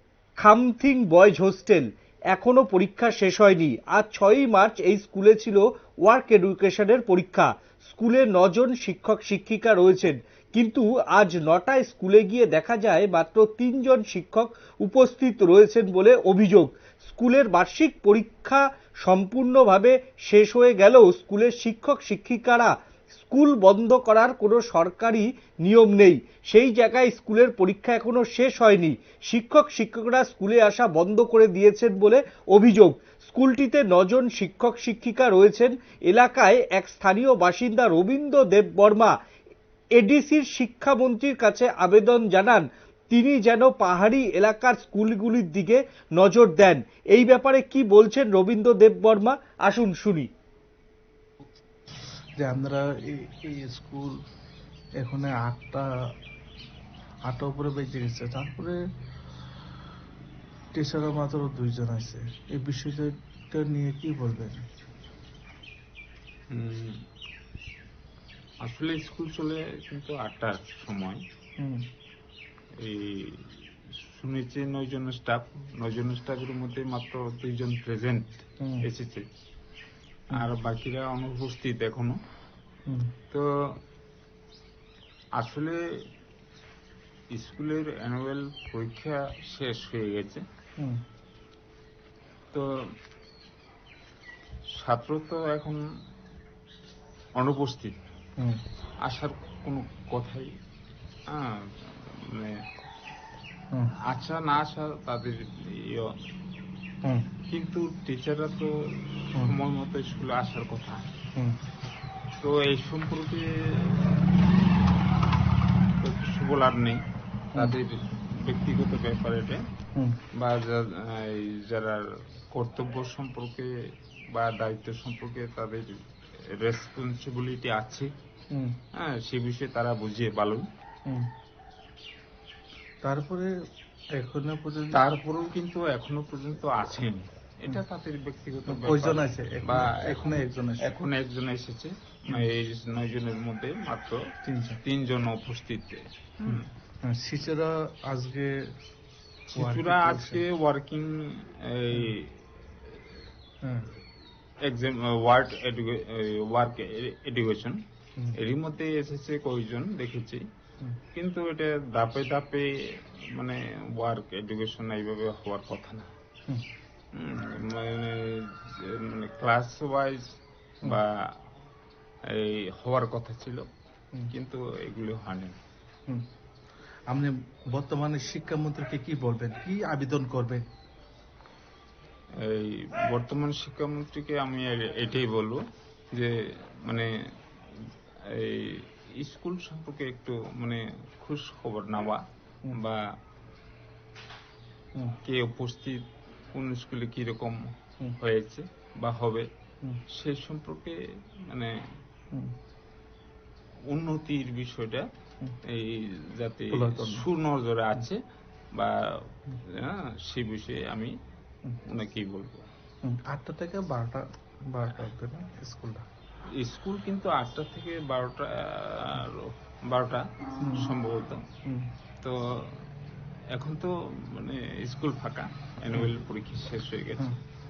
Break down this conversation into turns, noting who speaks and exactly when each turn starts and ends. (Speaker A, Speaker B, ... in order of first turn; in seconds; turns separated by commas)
Speaker A: 0.4-22.7, Speaker A: 23.2-39.1, Speaker A: 40.0-50.3, Speaker B: 52.4-54.2, Speaker B: 55.0-55.9, Speaker B: 57.3-58.8, Speaker B: 60.7-64.6, Speaker C: 66.5-67.0, Speaker C: 68.6-71.2, Speaker C: 72.8-79.2, Speaker B: 78.6-78.8, Speaker C: 80.3-82.2, Speaker C: 85.4-85.8, Speaker C: 87.3-90.4, Speaker C: 94.8-95.8, Speaker C: 97.4-98.0, Speaker C: 99.1-100.5, Speaker C: 101.3-102.5, Speaker C: 104.1-106.1, Speaker C: 107.5-111.1, Speaker C: 112.4-114.6, Speaker C: 116.0-117.0, Speaker C: 117.5-119.6, Speaker B: 119.9-120.2, Speaker C: 120.4-122.0, Speaker C: 122.5-123.7, Speaker C: 124.3-126.0, Speaker C: 126.5-128.1, Speaker C: 128.9-130.7, Speaker B: 133.0-133.5, Speaker B: 134.2-135.0, Speaker C: 134.9-144.2, Speaker B: 138.7-141.0, Speaker B: 144.4-144.8, Speaker C: 144.8-146.7, Speaker B: 146.4-148.6, Speaker B: 149.5-150.4, Speaker C: 149.5-152.4, Speaker B: 153.6-153.9, Speaker C: 154.6-157.8, Speaker C: 158.3-160.4, Speaker C: 161.1-162.7, Speaker C: 163.3-166.1, Speaker C: 167.1-170.2, Speaker C: 170.8-171.2, Speaker C: 172.3-173.6, Speaker C: 174.3-175.6, Speaker B: 177.1-180.6, Speaker C: 182.4-185.6, Speaker C: 186.1-187.1, Speaker C: 188.3-193.0, Speaker C: 195.2-196.0, Speaker C: 196.5-197.6, Speaker C: 198.2-199.4, Speaker C: 200.1-200.9, Speaker C: 203.9-205.1, Speaker C: 205.7-208.2, Speaker B: 206.7-207.2, Speaker C: 209.7-211.1, Speaker C: 211.8-212.6, Speaker B: 213.0-216.0, Speaker C: 216.6-220.2, Speaker B: 220.6-220.9, Speaker C: 220.7-221.4, Speaker C: 222.2-222.8, Speaker C: 223.5-227.3